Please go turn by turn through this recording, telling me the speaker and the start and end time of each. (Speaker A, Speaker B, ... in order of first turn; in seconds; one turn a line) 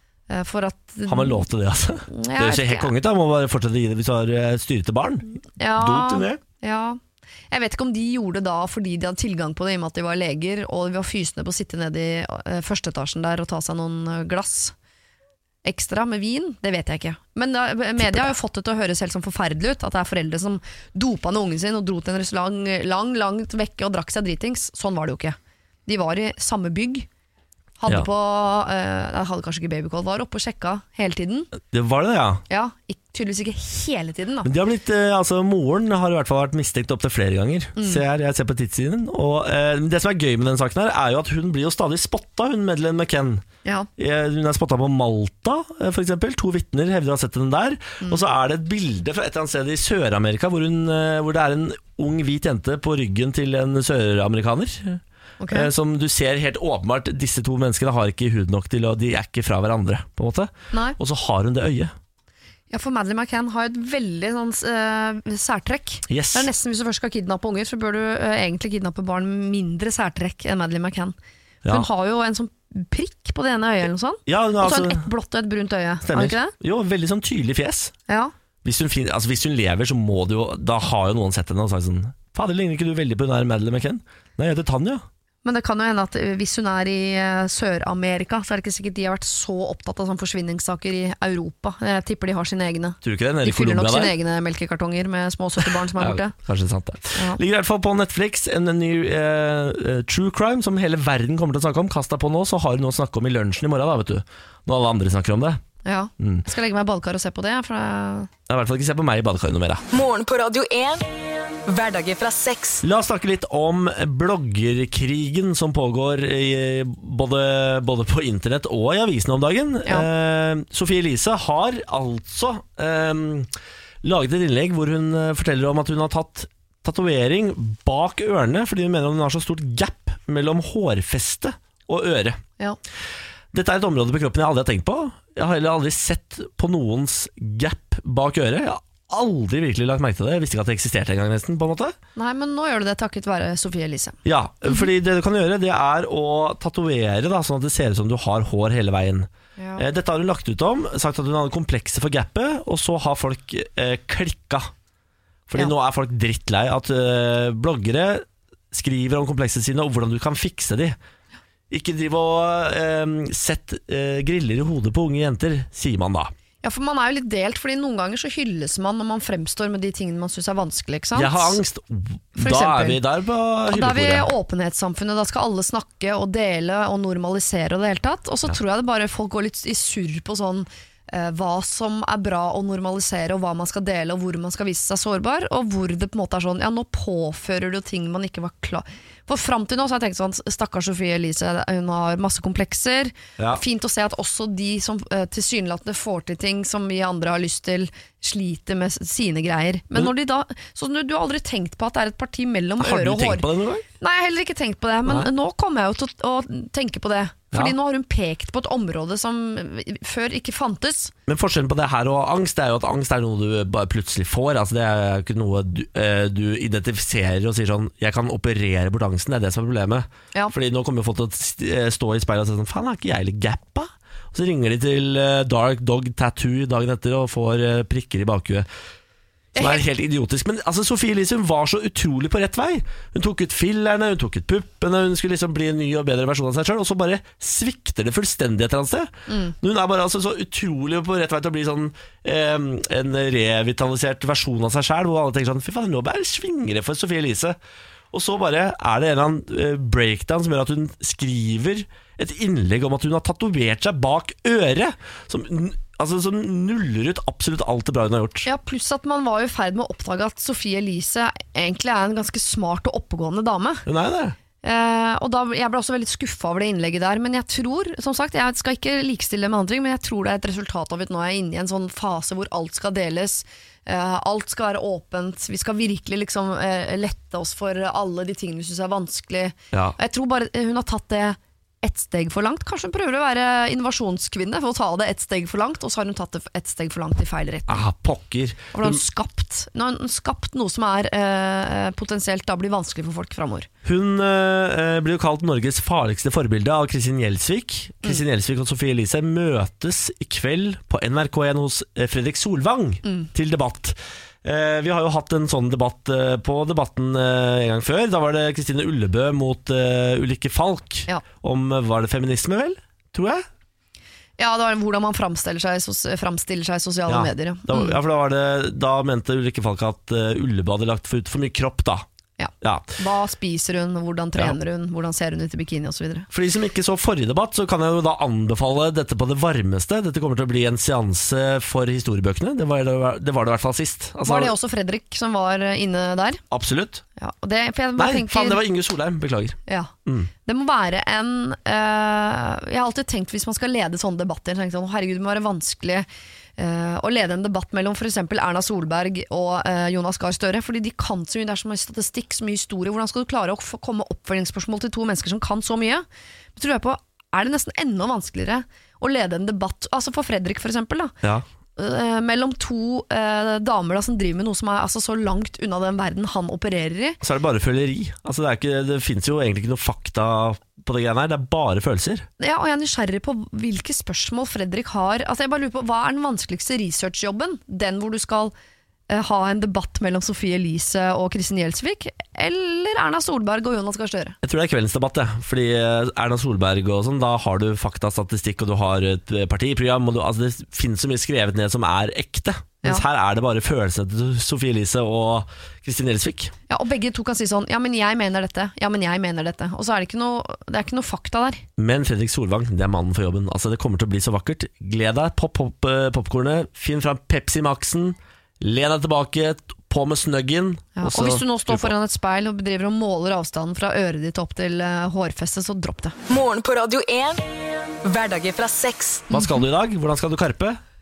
Speaker A: 0.3-1.4
Speaker B: 1.1-6.4
Speaker A: 2.1-2.9
Speaker A: 5.6-7.0
Speaker A: 7.5-14.7
Speaker A: 15.6-27.1
Speaker A: 27.8-31.5
Speaker B: 31.6-32.4
Speaker A: 32.5-34.5
Speaker B: 34.4-43.4
Speaker A: 37.8-38.0
Speaker A: 43.6-43.9
Speaker B: 44.0-61.9
Speaker A: 55.4-55.7
Speaker A: 60.7-61.0
Speaker A: 62.7-71.1
Speaker B: 66.1-66.5
Speaker A: 71.7-76.5
Speaker B: 74.3-75.1
Speaker B: 76.0-77.9
Speaker A: 78.1-78.3
Speaker B: 78.6-85.0
Speaker A: 85.4-96.3
Speaker B: 93.0-94.1
Speaker B: 95.9-105.6
Speaker A: 97.1-97.4
Speaker A: 105.8-108.3
Speaker B: 106.2-106.5
Speaker B: 108.5-109.8
Speaker C: 109.9-112.8
Speaker B: 112.8-123.5
Speaker B: 124.0-132.4
Speaker B: 133.5-141.9
Speaker A: 142.2-144.2
Speaker B: 144.2-154.7
Speaker A: 149.6-149.8
Speaker B: 155.5-161.0
Speaker B: 161.7-166.3
Speaker A: 166.6-171.6
Speaker B: 171.2-174.3
Speaker A: 172.3-173.0
Speaker A: 173.7-203.4
Speaker B: 202.8-203.8
Speaker A: 204.0-211.1
Speaker B: 211.3-228.7
Speaker B: 229.5-247.6
Speaker A: 229.6-229.8
Speaker A: 239.3-239.5
Speaker B: 248.1-258.5
Speaker A: 258.4-263.9
Speaker B: 263.9-264.4
Speaker A: 264.6-287.8
Speaker B: 287.7-289.0
Speaker A: 288.7-293.7
Speaker B: 293.8-313.4
Speaker A: 314.4-318.0
Speaker B: 317.1-322.1
Speaker A: 322.4-326.3
Speaker B: 322.6-323.0
Speaker B: 326.3-334.5
Speaker A: 334.2-336.4
Speaker B: 336.5-337.0
Speaker A: 337.2-338.6
Speaker B: 338.0-340.3
Speaker A: 339.7-361.1
Speaker A: 361.8-367.2
Speaker B: 367.2-372.3
Speaker A: 372.4-378.5
Speaker A: 379.1-384.4
Speaker B: 384.4-396.5
Speaker A: 396.7-401.6
Speaker B: 401.8-411.9
Speaker A: 411.0-416.1
Speaker C: 416.3-419.3
Speaker B: 419.3-420.8
Speaker A: 419.3-419.6